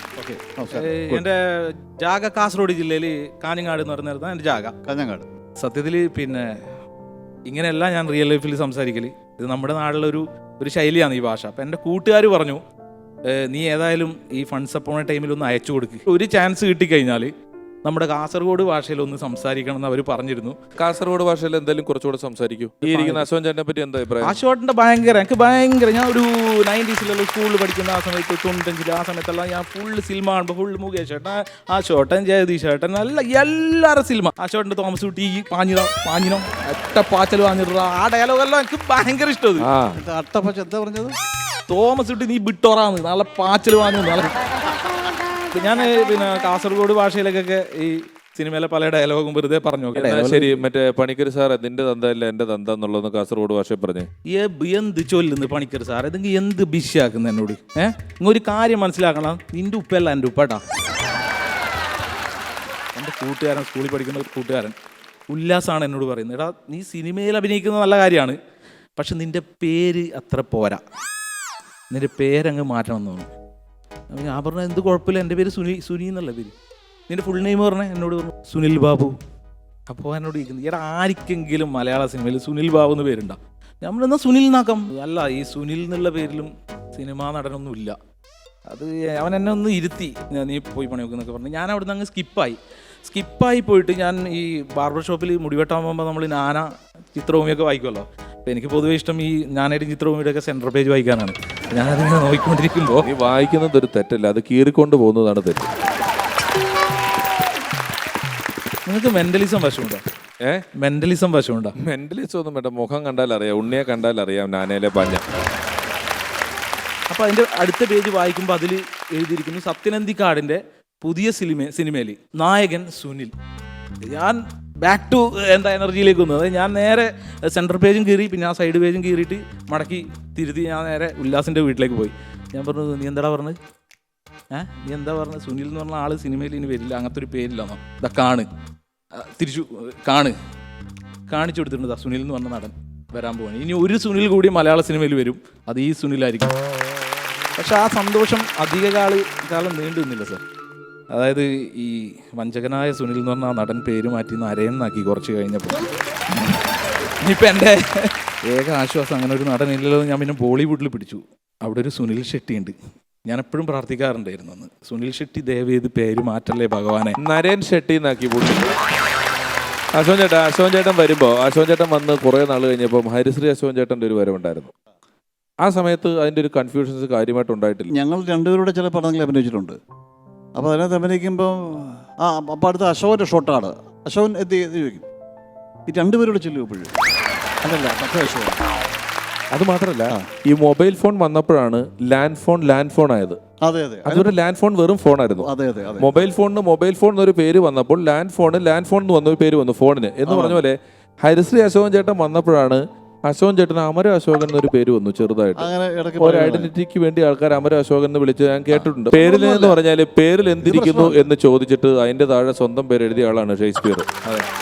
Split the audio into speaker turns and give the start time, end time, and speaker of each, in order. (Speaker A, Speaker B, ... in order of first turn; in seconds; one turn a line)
Speaker A: 0.2-1.2
Speaker B: 0.7-4.7
Speaker A: 4.8-5.3
Speaker B: 5.6-6.6
Speaker B: 7.5-12.6
Speaker B: 13.3-17.3
Speaker B: 17.8-20.6
Speaker C: 20.8-24.4
Speaker B: 22.8-23.3
Speaker B: 24.2-39.7
Speaker C: 39.6-40.0
Speaker A: 40.0-41.1
Speaker B: 41.7-44.4
Speaker B: 45.5-50.6
Speaker C: 49.9-54.1
Speaker B: 54.2-60.6
Speaker B: 62.9-64.7
Speaker B: 65.3-68.4
Speaker B: 69.0-70.8
Speaker B: 71.9-73.3
Speaker B: 74.1-76.5
Speaker B: 77.1-79.2
Speaker B: 79.9-88.0
Speaker B: 88.7-103.0
Speaker C: 103.0-105.6
Speaker B: 108.8-110.0
Speaker B: 110.8-111.7
Speaker C: 111.8-115.2
Speaker B: 117.1-123.3
Speaker B: 124.0-133.6
Speaker B: 134.5-138.5
Speaker B: 139.1-140.3
Speaker B: 141.3-146.5
Speaker B: 147.6-150.4
Speaker B: 151.1-162.7
Speaker B: 163.2-167.2
Speaker C: 167.2-168.7
Speaker C: 169.9-174.7
Speaker C: 175.6-177.9
Speaker A: 177.9-179.8
Speaker A: 180.6-185.0
Speaker A: 185.9-186.9
Speaker A: 187.6-188.6
Speaker C: 189.5-193.4
Speaker A: 193.6-194.3
Speaker C: 194.1-195.5
Speaker A: 195.4-196.3
Speaker C: 196.0-214.1
Speaker A: 200.3-200.6
Speaker A: 205.6-206.7
Speaker A: 208.7-209.8
Speaker A: 210.6-211.3